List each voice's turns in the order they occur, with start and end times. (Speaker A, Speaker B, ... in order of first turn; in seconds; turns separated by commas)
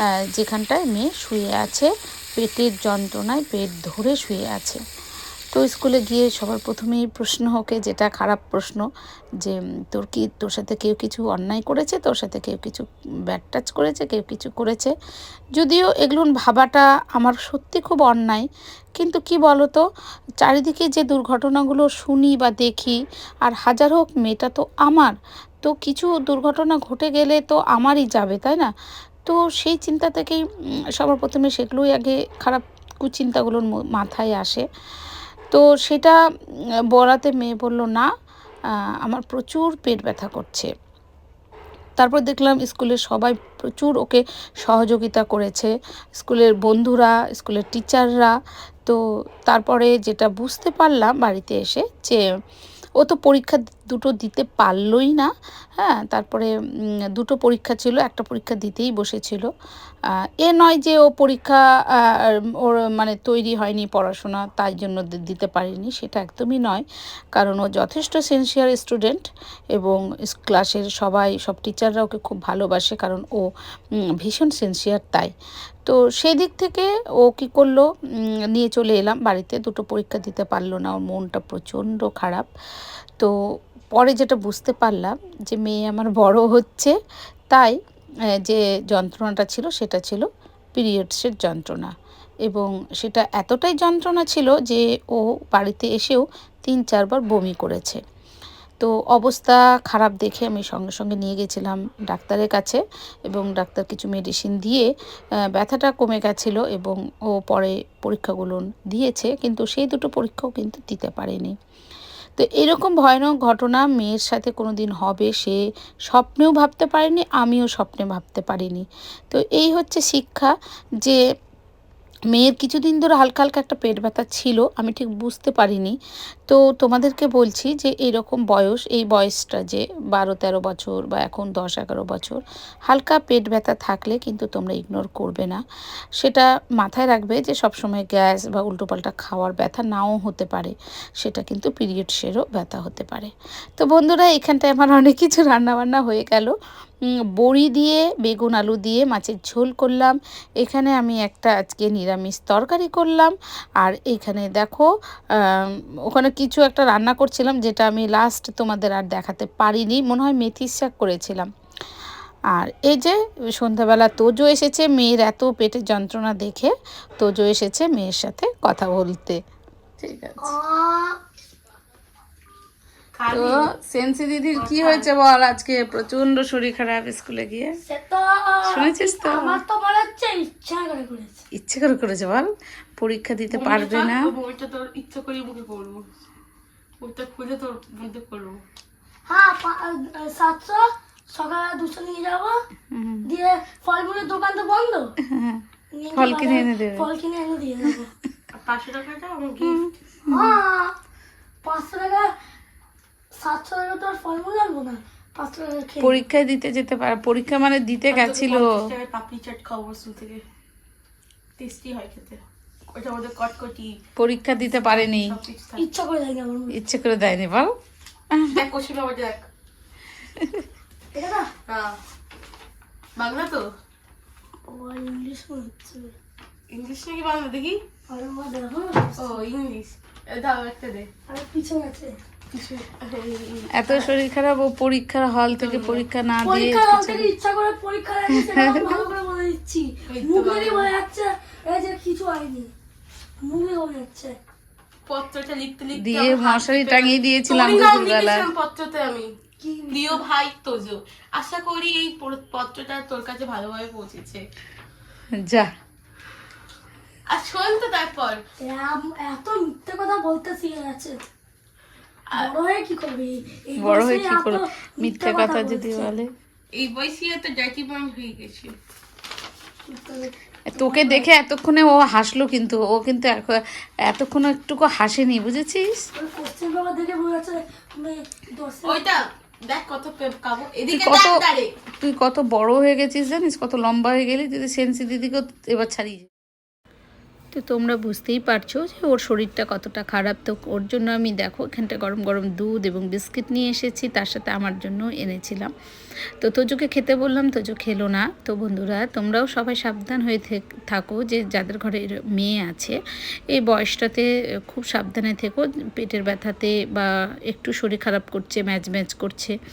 Speaker A: 0.3-4.8, Speaker A: 5.5-8.8, Speaker A: 9.4-14.9, Speaker A: 15.6-18.4, Speaker A: 19.0-19.8, Speaker A: 20.4-25.1, Speaker A: 25.6-28.7, Speaker A: 29.2-30.4, Speaker A: 31.0-34.6, Speaker A: 35.5-36.2, Speaker A: 36.9-38.1, Speaker A: 39.0-40.7, Speaker A: 42.0-48.3, Speaker A: 48.9-52.2, Speaker A: 53.0-56.5, Speaker A: 57.1-59.5, Speaker A: 60.4-73.5, Speaker A: 74.2-75.3, Speaker A: 75.8-77.8, Speaker A: 78.5-82.5, Speaker A: 83.9-86.9, Speaker A: 88.4-91.9, Speaker A: 92.5-98.0, Speaker A: 98.8-104.9, Speaker A: 105.5-111.5, Speaker A: 112.4-121.2, Speaker A: 122.3-125.9, Speaker A: 126.5-135.6, Speaker A: 136.2-146.5, Speaker A: 147.4-154.9, Speaker A: 155.4-161.5, Speaker A: 162.5-169.4, Speaker A: 170.0-170.5, Speaker B: 170.4-171.2, Speaker C: 173.1-173.7, Speaker A: 173.3-177.8, Speaker C: 174.6-175.1, Speaker B: 177.8-181.4, Speaker A: 178.6-179.6, Speaker A: 181.6-184.3, Speaker C: 183.5-186.0, Speaker C: 187.0-188.6, Speaker B: 189.3-192.6, Speaker A: 192.9-193.3, Speaker B: 193.2-195.1, Speaker A: 195.3-195.6, Speaker B: 195.9-198.1, Speaker A: 196.1-197.1, Speaker C: 198.5-199.8, Speaker A: 199.6-200.6, Speaker B: 200.3-201.0, Speaker B: 201.6-202.3, Speaker B: 203.3-206.2, Speaker A: 206.0-208.8, Speaker C: 208.1-210.4, Speaker C: 211.6-214.0, Speaker A: 214.2-215.4, Speaker C: 214.7-215.9, Speaker B: 215.8-216.8, Speaker A: 216.7-217.7, Speaker C: 218.5-219.5, Speaker B: 221.1-221.5, Speaker C: 221.7-222.0, Speaker C: 223.2-223.7, Speaker B: 224.6-226.1, Speaker C: 226.7-227.8, Speaker B: 228.1-229.4, Speaker C: 229.2-231.1, Speaker B: 231.3-232.2, Speaker C: 232.5-234.1, Speaker A: 233.7-237.3, Speaker C: 235.6-236.0, Speaker B: 236.4-242.7, Speaker A: 238.3-238.8, Speaker C: 240.1-240.9, Speaker B: 243.4-244.4, Speaker C: 245.1-249.3, Speaker A: 245.9-248.5, Speaker B: 249.6-250.3, Speaker C: 249.9-254.4, Speaker A: 255.3-255.7, Speaker C: 257.3-258.4, Speaker B: 258.6-261.3, Speaker C: 262.3-262.5, Speaker B: 262.3-266.1, Speaker A: 263.8-266.3, Speaker C: 266.7-268.8, Speaker B: 269.9-271.3, Speaker A: 270.7-276.0, Speaker B: 276.1-279.1, Speaker C: 278.8-281.7, Speaker A: 280.9-281.4, Speaker A: 282.0-286.3, Speaker A: 287.5-295.7, Speaker A: 296.4-303.0, Speaker A: 303.5-309.5